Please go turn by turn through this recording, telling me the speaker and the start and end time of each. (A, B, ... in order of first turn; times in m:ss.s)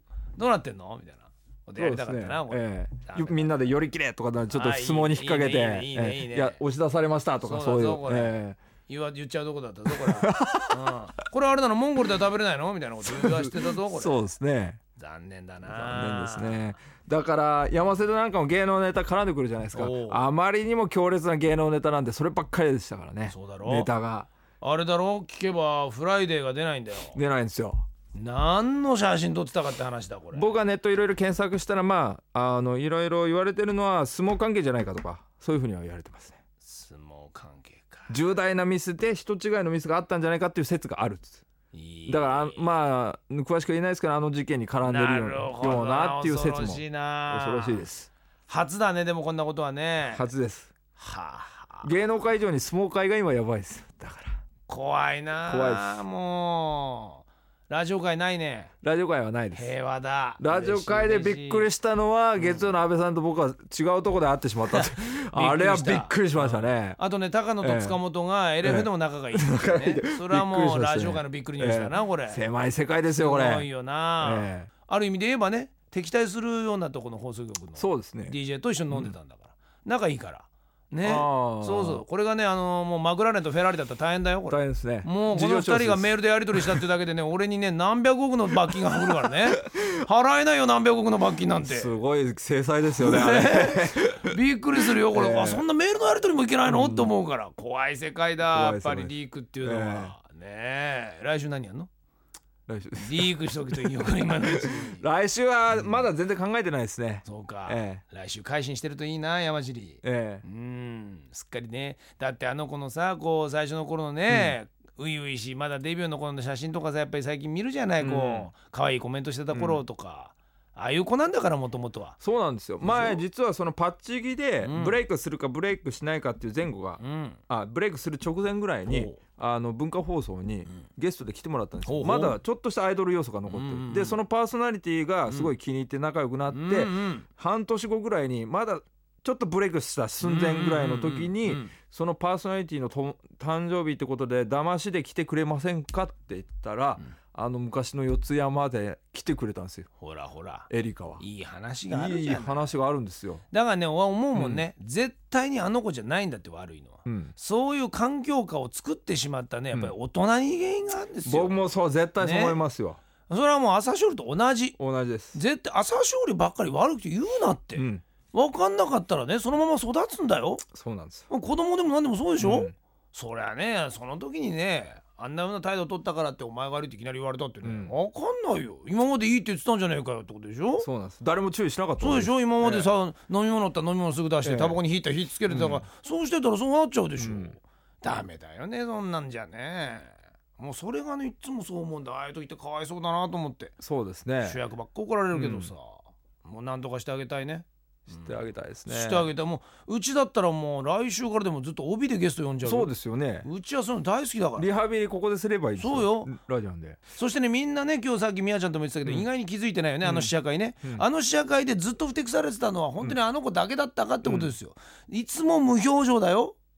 0:00.4-0:03.6 A
0:01.8-0:08.6 B
0:04.5-0:06.6 A
0:07.4-0:14.2 A
0:10.0-0:10.9 B
0:13.0-0:14.8 B
0:15.0-0:16.6 A
0:15.7-0:24.3 B
0:19.7-0:20.2 A
0:23.3-0:23.9 A
0:24.6-0:27.2 A
0:27.2-0:27.8 B
0:28.1-0:30.5 A
0:30.3-0:36.4 B
0:36.6-0:38.2 A
0:38.1-0:41.4 B
0:41.7-0:42.6 A
0:42.1-0:48.1 B
0:44.8-0:47.9 A
0:48.5-0:50.3 A
0:50.1-0:50.7 B
0:51.0-0:51.9 A
0:51.8-0:54.4 B
0:54.7-0:58.7 A
0:55.5-0:56.0 B
0:58.8-0:59.7 B
0:59.5-1:01.7 A
1:00.4-1:07.0 B
1:02.4-1:02.7 A
1:04.7-1:12.4 A
1:07.6-1:08.0 B
1:08.6-1:13.7 B
1:13.1-1:31.9 A
1:14.2-1:14.7 B
1:17.8-1:18.4 B
1:21.0-1:22.0 B
1:24.5-1:26.8 B
1:31.6-1:35.7 B
1:33.0-1:41.9 A
1:36.7-1:37.1 B
1:38.5-1:40.2 B
1:42.7-1:48.0 B
1:43.0-1:45.0 A
1:45.7-1:46.0 A
1:47.2-2:02.2 A
1:50.0-1:50.4 B
1:54.3-1:54.6 B
1:58.0-1:58.5 B
1:59.5-1:59.8 B
2:02.2-2:29.9 B
2:02.8-2:03.2 A
2:04.6-2:05.0 A
2:07.0-2:07.4 A
2:08.9-2:09.2 A
2:11.9-2:12.4 A
2:13.5-2:14.2 A
2:16.5-2:17.3 A
2:20.2-2:21.7 A
2:30.0-2:32.7 A
2:30.7-2:31.2 B
2:31.9-2:33.4 B
2:33.5-2:41.6 A
2:34.3-2:34.6 B
2:37.1-2:37.3 B
2:41.3-2:43.0 B
2:42.2-2:42.6 A
2:43.3-2:44.8 A
2:44.8-2:45.4 B
2:45.3-2:50.6 A
2:47.8-2:48.0 B
2:50.7-2:51.3 B
2:51.3-3:00.9 A
2:52.4-2:52.7 B
2:57.6-2:57.9 B
3:00.8-3:02.9 B
3:02.0-3:13.7 A
3:04.4-3:04.8 B
3:05.5-3:05.8 B
3:07.2-3:07.5 B
3:13.8-3:14.6 B
3:14.4-3:22.9 A
3:15.3-3:15.7 B
3:18.1-3:19.3 B
3:22.6-3:23.5 B
3:23.4-3:24.7 A
3:24.6-3:27.0 B
3:25.8-3:26.4 A
3:27.1-3:36.6 A
3:30.0-3:30.3 B
3:34.2-3:34.5 B